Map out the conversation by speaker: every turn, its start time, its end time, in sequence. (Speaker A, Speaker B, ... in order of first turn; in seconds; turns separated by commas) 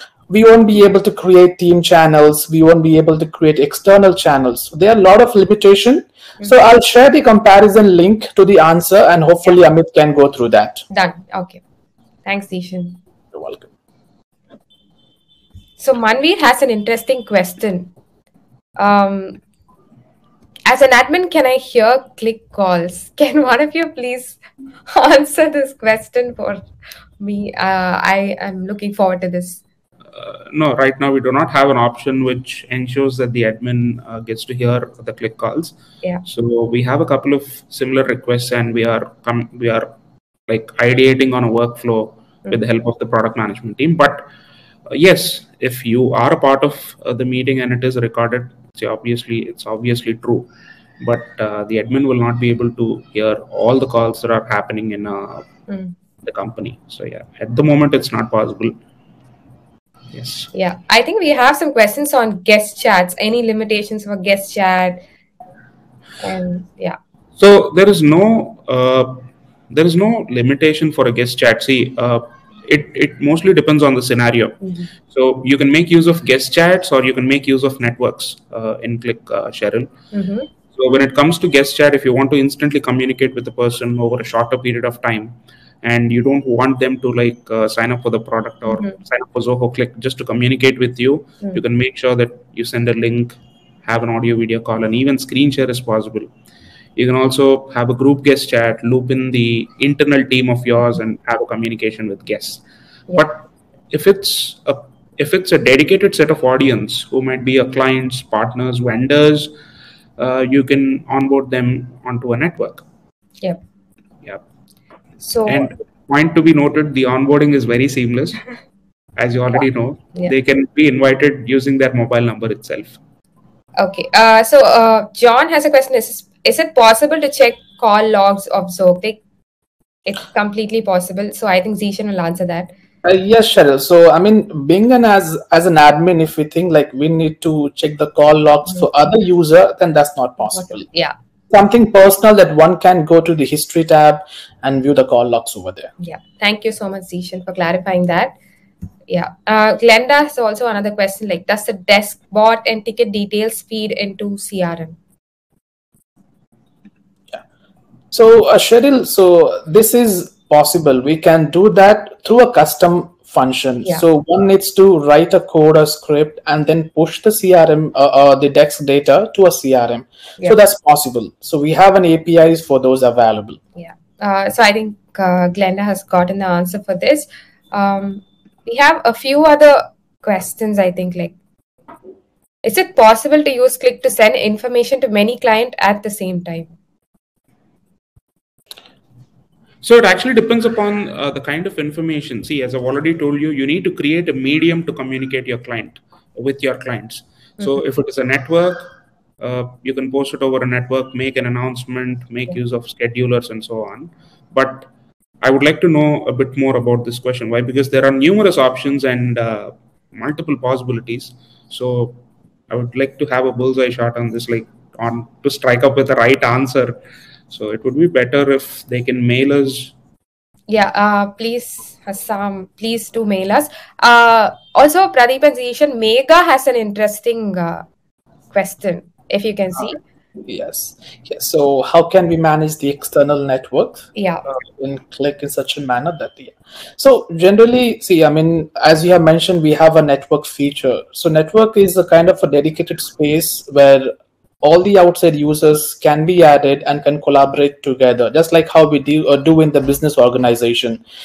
Speaker A: 0.3-10.8, Speaker B: 10.9-11.6, Speaker B: 12.2-13.0, Speaker A: 13.3-13.7, Speaker B: 15.8-17.9, Speaker B: 18.8-19.4, Speaker B: 20.7-26.6, Speaker B: 27.2-29.6, Speaker C: 30.1-39.9, Speaker C: 40.5-44.3, Speaker C: 44.9-50.5, Speaker C: 51.0-55.5, Speaker B: 55.7-55.9, Speaker C: 56.2-58.8, Speaker C: 60.1-60.5, Speaker B: 60.5-65.0, Speaker B: 66.2-67.0, Speaker C: 67.4-79.9, Speaker B: 74.6-74.9, Speaker B: 80.1-80.5, Speaker C: 80.7-96.3, Speaker B: 88.7-89.0, Speaker C: 97.0-102.6, Speaker C: 103.1-109.5, Speaker C: 110.2-112.8, Speaker B: 115.2-115.7, Speaker C: 115.5-118.4, Speaker C: 119.2-123.0, Speaker B: 123.8-129.2, Speaker B: 130.1-132.7, Speaker A: 133.0-140.9, Speaker B: 140.5-141.1, Speaker A: 141.5-145.9, Speaker B: 146.0-148.3, Speaker B: 149.1-155.0, Speaker A: 158.1-173.6, Speaker B: 173.8-181.3, Speaker B: 182.6-186.7, Speaker C: 189.8-204.9, Speaker C: 205.4-217.0, Speaker C: 217.5-219.9, Speaker B: 220.7-227.8, Speaker B: 228.5-230.0, Speaker A: 230.4-234.1, Speaker B: 234.1-234.4, Speaker A: 234.7-244.1, Speaker A: 244.6-251.0